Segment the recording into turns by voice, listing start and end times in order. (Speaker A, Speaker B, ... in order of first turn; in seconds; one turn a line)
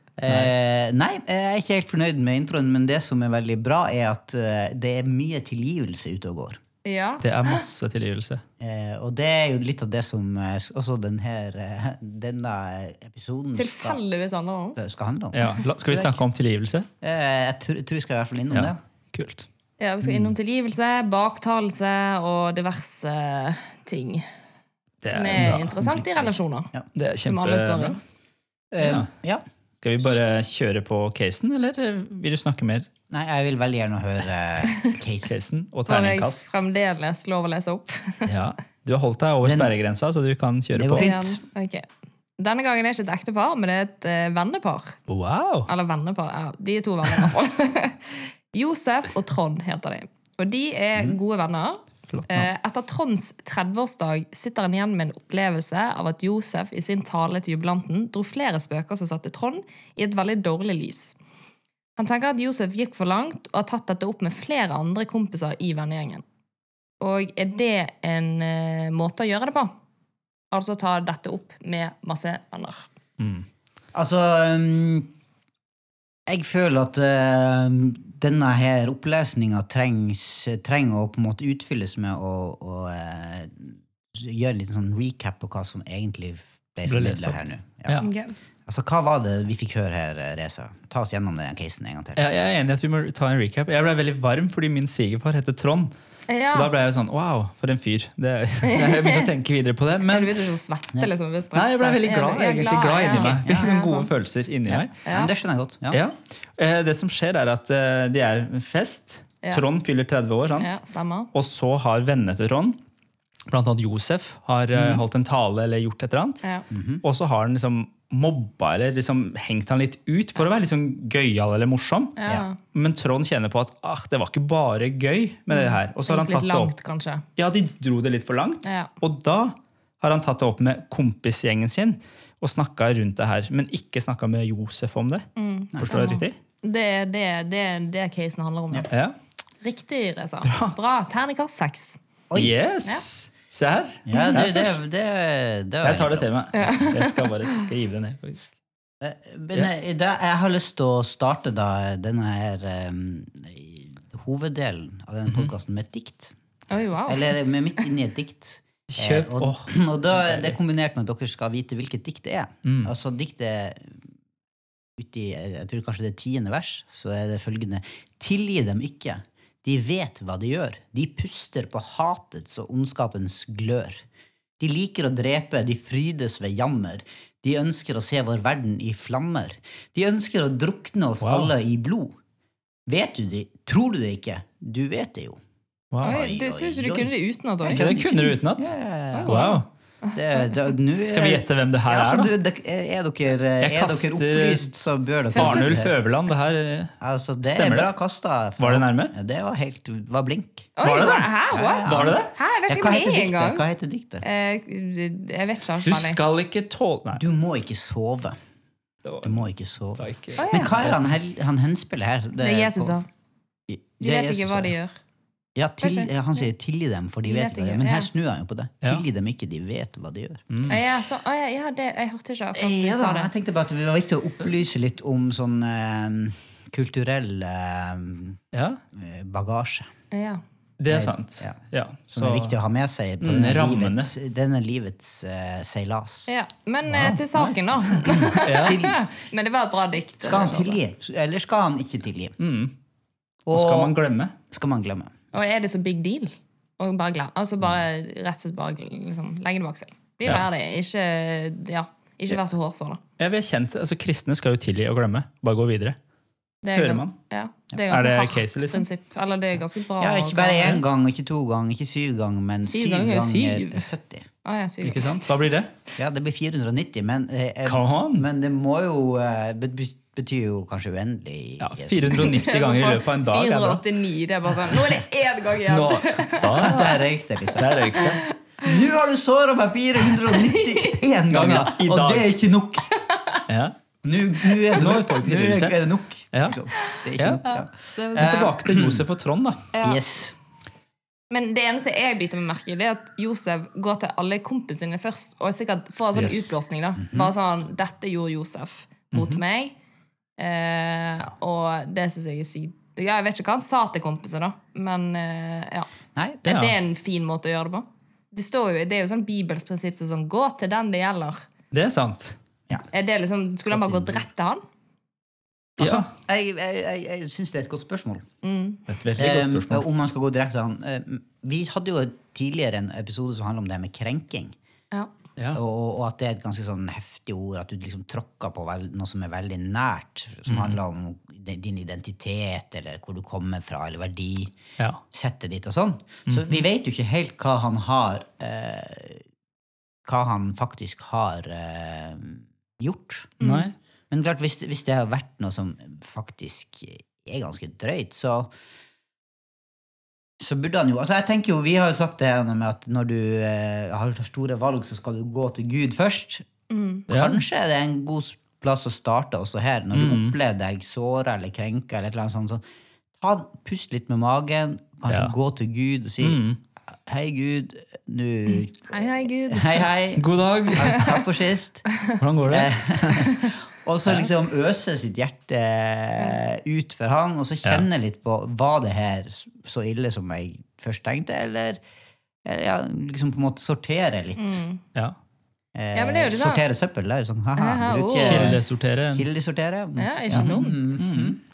Speaker A: 0.2-0.5
Speaker B: 0.2-6.6
Speaker C: 6.8-7.7
Speaker A: 7.2-8.4
Speaker B: 8.6-14.0
Speaker C: 13.6-14.8
Speaker B: 14.8-16.2
Speaker A: 15.3-16.9
Speaker B: 17.0-18.8
Speaker A: 18.5-19.5
Speaker C: 19.8-24.3
Speaker B: 20.0-20.3
Speaker A: 25.0-25.8
Speaker C: 25.0-26.7
Speaker B: 25.4-26.9
Speaker A: 26.9-28.0
Speaker C: 27.2-28.0
Speaker B: 28.7-29.4
Speaker A: 28.8-29.1
Speaker A: 29.8-32.9
Speaker B: 33.1-35.4
Speaker A: 35.3-36.5
Speaker C: 35.9-38.3
Speaker A: 38.3-41.1
Speaker B: 39.4-39.7
Speaker B: 40.7-41.4
Speaker C: 41.0-41.9
Speaker C: 42.4-45.0
Speaker A: 45.1-45.7
Speaker C: 45.7-61.2
Speaker A: 52.1-52.5
Speaker C: 62.0-66.2
Speaker C: 67.0-69.7
Speaker C: 70.5-72.9
Speaker A: 73.2-73.5
Speaker B: 73.9-75.1
Speaker B: 76.3-88.1
Speaker A: 86.9-88.1
Speaker C: 88.0-88.3
Speaker B: 88.7-92.2
Speaker A: 92.2-95.9
Speaker C: 96.3-96.7
Speaker A: 96.5-100.4
Speaker C: 98.6-99.3
Speaker C: 100.0-104.1
Speaker A: 101.5-104.9
Speaker B: 103.1-103.7
Speaker B: 104.7-106.0
Speaker C: 105.0-105.3
Speaker A: 105.9-110.8
Speaker C: 110.6-111.3
Speaker A: 111.3-112.8
Speaker A: 113.5-116.5
Speaker B: 114.7-115.0
Speaker B: 116.7-117.0
Speaker A: 117.0-122.2
Speaker C: 122.2-122.6
Speaker A: 122.7-126.7
Speaker C: 125.5-127.3
Speaker A: 127.4-135.3
Speaker C: 128.7-128.9
Speaker C: 135.4-138.9
Speaker B: 135.7-136.0
Speaker A: 135.8-136.4
Speaker A: 138.9-139.2
Speaker C: 139.6-142.0
Speaker A: 140.4-140.8
Speaker A: 142.4-144.7
Speaker B: 144.1-146.9
Speaker C: 144.2-144.4
Speaker A: 145.8-148.5
Speaker C: 146.5-147.7
Speaker B: 149.0-156.3
Speaker C: 156.7-157.4
Speaker B: 157.1-164.0
Speaker A: 158.9-160.6
Speaker A: 162.6-162.9
Speaker B: 165.0-174.0
Speaker B: 174.6-182.2
Speaker A: 181.2-181.5
Speaker B: 182.9-185.4
Speaker A: 185.9-186.2
Speaker B: 186.0-189.5
Speaker C: 186.0-187.9
Speaker A: 187.7-188.7
Speaker C: 189.1-190.7
Speaker A: 189.3-189.7
Speaker B: 190.1-195.9
Speaker A: 191.0-192.3
Speaker A: 193.6-197.9
Speaker C: 195.3-195.8
Speaker B: 197.0-200.7
Speaker A: 198.6-199.1
Speaker C: 200.8-203.7
Speaker A: 200.8-201.3
Speaker B: 201.5-204.2
Speaker A: 201.8-202.3
Speaker C: 204.2-206.2
Speaker A: 205.8-207.2
Speaker B: 207.2-208.4
Speaker A: 209.1-209.4
Speaker B: 209.2-213.0
Speaker A: 210.0-211.1
Speaker C: 210.4-210.7
Speaker C: 212.4-213.1
Speaker B: 213.7-214.8
Speaker C: 214.0-215.0
Speaker B: 215.6-220.8
Speaker C: 215.8-216.1
Speaker C: 217.3-218.1
Speaker A: 220.5-220.8
Speaker C: 220.7-223.3
Speaker B: 222.6-228.4
Speaker A: 228.5-228.8
Speaker B: 228.9-229.9
Speaker C: 230.1-230.4
Speaker A: 230.8-232.6
Speaker B: 230.9-231.6
Speaker B: 232.1-236.3
Speaker A: 233.2-234.1
Speaker C: 236.3-240.8
Speaker B: 236.9-239.0
Speaker A: 236.9-237.2
Speaker A: 237.9-238.8
Speaker B: 240.2-242.4
Speaker A: 242.4-242.7
Speaker B: 243.5-244.0
Speaker A: 243.5-244.3
Speaker B: 244.5-245.1
Speaker C: 245.3-253.0
Speaker A: 253.2-256.0
Speaker C: 256.6-260.8
Speaker A: 256.8-257.1
Speaker A: 257.9-258.9
Speaker B: 260.0-264.3
Speaker C: 262.6-263.9
Speaker C: 264.4-265.4
Speaker A: 264.8-265.7
Speaker B: 266.0-272.5
Speaker A: 267.6-268.3
Speaker A: 271.6-273.8
Speaker C: 272.1-276.7
Speaker A: 274.7-274.9
Speaker A: 275.6-277.0
Speaker B: 276.5-282.9
Speaker A: 277.6-278.2
Speaker C: 277.9-278.7
Speaker C: 280.3-280.9
Speaker A: 281.3-282.4
Speaker C: 282.9-283.4
Speaker A: 283.5-283.8
Speaker B: 284.0-289.0
Speaker A: 284.8-285.8
Speaker A: 286.3-286.6
Speaker A: 287.2-287.5
Speaker C: 287.5-288.5
Speaker A: 288.1-289.7
Speaker C: 289.7-290.0
Speaker B: 289.8-290.4
Speaker C: 291.3-299.7
Speaker A: 296.1-296.5
Speaker B: 297.0-297.3
Speaker A: 299.1-299.4
Speaker C: 300.4-305.9
Speaker B: 306.1-306.4
Speaker C: 306.4-311.4
Speaker A: 306.4-306.8
Speaker A: 311.7-312.4
Speaker C: 312.9-314.6
Speaker B: 313.7-314.2
Speaker B: 315.8-318.2
Speaker A: 315.8-316.1
Speaker C: 318.4-318.9
Speaker A: 318.9-319.9
Speaker B: 319.2-324.6
Speaker B: 325.5-334.6
Speaker A: 330.5-330.8
Speaker B: 335.1-339.2
Speaker A: 336.3-336.6
Speaker B: 340.1-343.3
Speaker C: 343.4-343.7
Speaker A: 343.4-343.8
Speaker B: 344.1-348.5
Speaker B: 350.4-356.5
Speaker C: 356.7-357.1
Speaker B: 357.1-362.6
Speaker A: 357.1-357.4
Speaker A: 359.9-360.4
Speaker B: 363.2-366.4
Speaker A: 366.2-366.6
Speaker B: 367.1-381.8
Speaker C: 368.5-369.9
Speaker A: 370.2-371.2
Speaker C: 370.7-371.2
Speaker A: 372.2-373.3
Speaker B: 382.4-384.6
Speaker C: 384.4-384.8
Speaker B: 385.8-388.6
Speaker C: 385.9-386.6
Speaker C: 387.6-388.6
Speaker A: 388.1-389.3
Speaker B: 389.1-391.4
Speaker C: 390.0-391.1
Speaker A: 390.3-391.4